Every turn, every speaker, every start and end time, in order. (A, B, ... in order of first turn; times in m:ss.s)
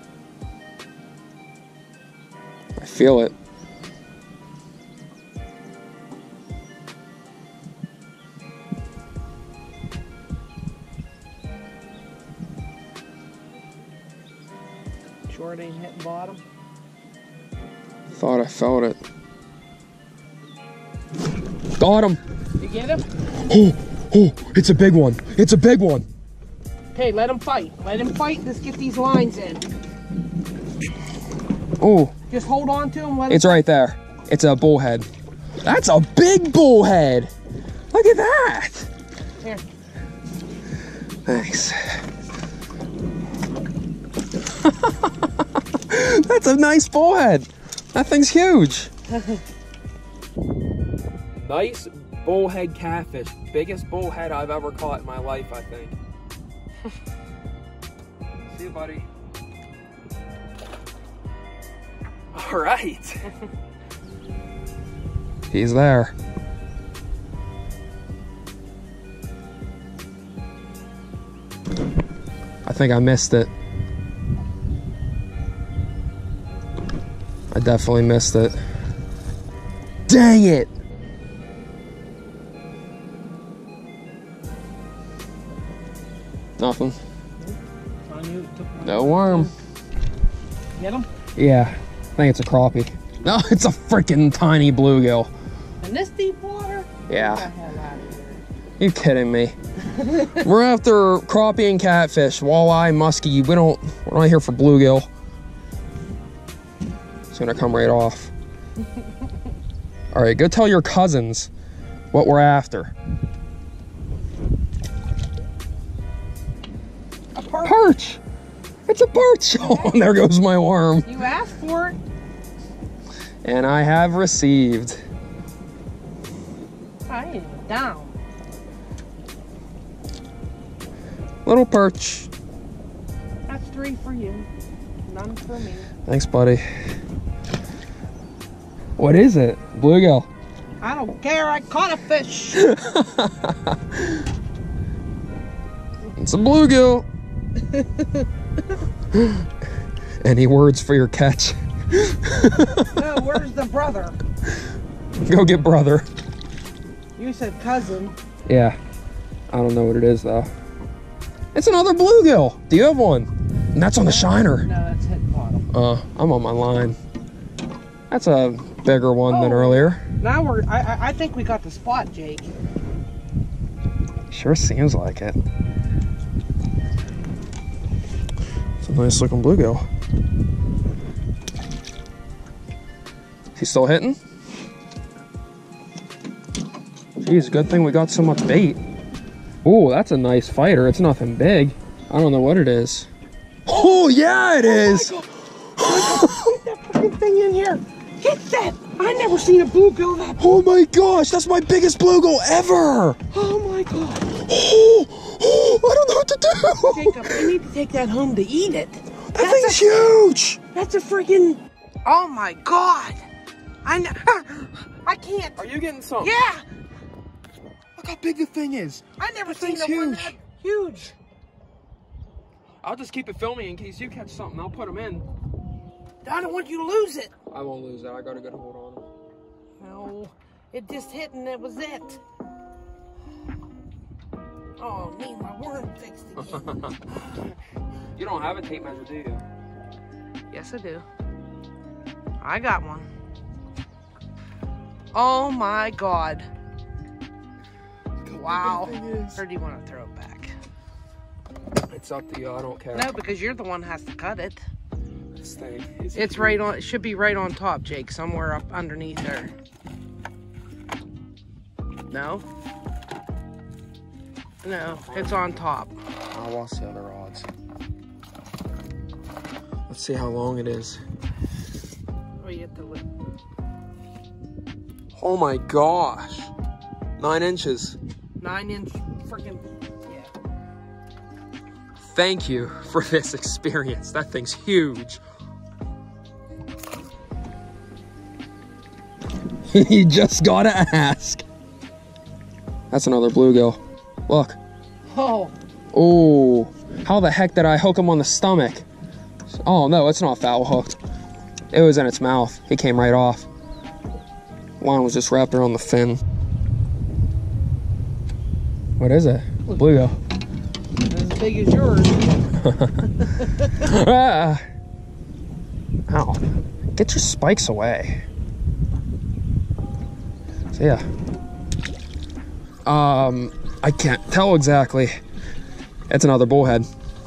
0:02.8-0:03.3 A
0:15.3-0:16.4 B
0:18.1-0:19.0 A
0:21.8-0:22.2 A
0:22.6-0:23.0 B
0:23.5-0:26.0 A
0:26.9-0:29.6 B
0:31.8-0:32.1 A
0:32.3-0:33.6 B
0:33.3-0:35.1 A
0:35.6-0:37.3 A
0:37.9-0:38.9 A
0:41.2-0:42.0 A
0:44.6-0:48.9 A
0:51.3-0:56.0 A
0:58.5-0:59.0 A
1:02.3-1:03.3 A
1:05.5-1:06.1 A
1:12.6-1:13.5 A
1:17.5-1:18.6 A
1:20.1-1:20.7 A
1:26.6-1:27.0 A
1:28.1-1:29.5 B
1:28.8-1:29.5 A
1:30.8-1:31.1 B
1:31.4-1:35.3 A
1:35.8-1:38.4 B
1:37.1-1:37.5 A
1:38.8-1:39.6 A
1:39.9-1:40.4 B
1:40.3-1:45.1 A
1:47.3-1:48.3 A
1:50.1-1:51.5 A
1:52.1-1:52.9 A
1:57.3-1:57.8 B
1:57.6-1:58.2 A
1:58.9-2:01.1 A
1:59.6-1:59.9 B
2:01.0-2:02.0 B
2:03.4-2:05.0 A
2:07.1-2:08.1 B
2:11.4-2:12.3 A
2:13.5-2:14.5 B
2:15.0-2:15.9 B
2:16.0-2:16.6 A
2:19.0-2:20.3 A
2:20.8-2:22.7 B
2:22.5-2:24.2 A
2:26.2-2:27.0 A
2:27.7-2:28.2 B
2:29.1-2:29.4 A
2:30.2-2:33.0 A
2:32.9-2:34.2 B
2:35.2-2:36.0 A
2:37.2-2:38.1 B
2:38.5-2:38.8 A
2:39.5-2:40.5 A
2:41.5-2:44.6 A
2:44.0-2:45.7 B
2:45.7-2:47.0 A
2:48.1-2:50.0 A
2:49.3-2:52.5 B
2:54.3-2:55.4 A
2:58.8-2:59.8 A
3:03.6-3:04.2 A
3:07.2-3:08.8 A
3:09.6-3:13.1 A
3:13.6-3:15.2 A
3:13.7-3:20.4 B
3:15.8-3:16.5 A
3:20.4-3:23.2 A
3:23.3-3:24.3 B
3:24.3-3:27.5 A
3:26.9-3:29.9 B
3:29.3-3:30.6 A
3:30.7-3:33.2 B
3:33.8-3:35.6 B
3:35.6-3:36.3 A
3:36.2-3:36.6 B
3:38.0-3:40.4 A
3:39.2-3:41.1 B
3:42.8-3:45.2 A
3:46.2-3:47.3 B
3:47.5-3:49.0 A
3:49.8-3:52.2 B
3:54.8-3:56.8 B
3:56.4-3:57.0 A
3:58.2-3:59.4 A
4:00.5-4:01.0 B
4:02.4-4:03.1 B
4:05.1-4:06.5 B
4:08.2-4:09.4 A
4:08.3-4:10.5 B
4:11.9-4:13.1 A
4:12.9-4:14.6 B
4:15.4-4:16.6 A
4:16.1-4:19.5 B
4:22.1-4:22.4 B
4:24.6-4:26.0 B
4:25.0-4:25.5 A
4:26.3-4:27.5 A
4:29.9-4:31.0 A
4:32.4-4:33.0 B
4:35.1-4:36.5 A
4:37.2-4:38.0 A
4:38.4-4:40.3 B
4:42.0-4:45.2 A
4:49.7-4:51.4 A
4:52.9-4:54.6 A
4:55.1-4:55.6 B
4:55.9-4:58.8 A
4:59.5-5:01.0 A
5:01.7-5:03.5 A
5:04.8-5:06.2 A
5:09.0-5:10.2 A
5:09.7-5:10.0 B
5:11.0-5:12.3 B
5:12.6-5:14.6 A
5:13.2-5:13.8 B
5:16.1-5:16.4 A
5:16.9-5:18.2 A
5:20.7-5:21.0 A
5:22.8-5:25.2 A
5:26.1-5:26.9 A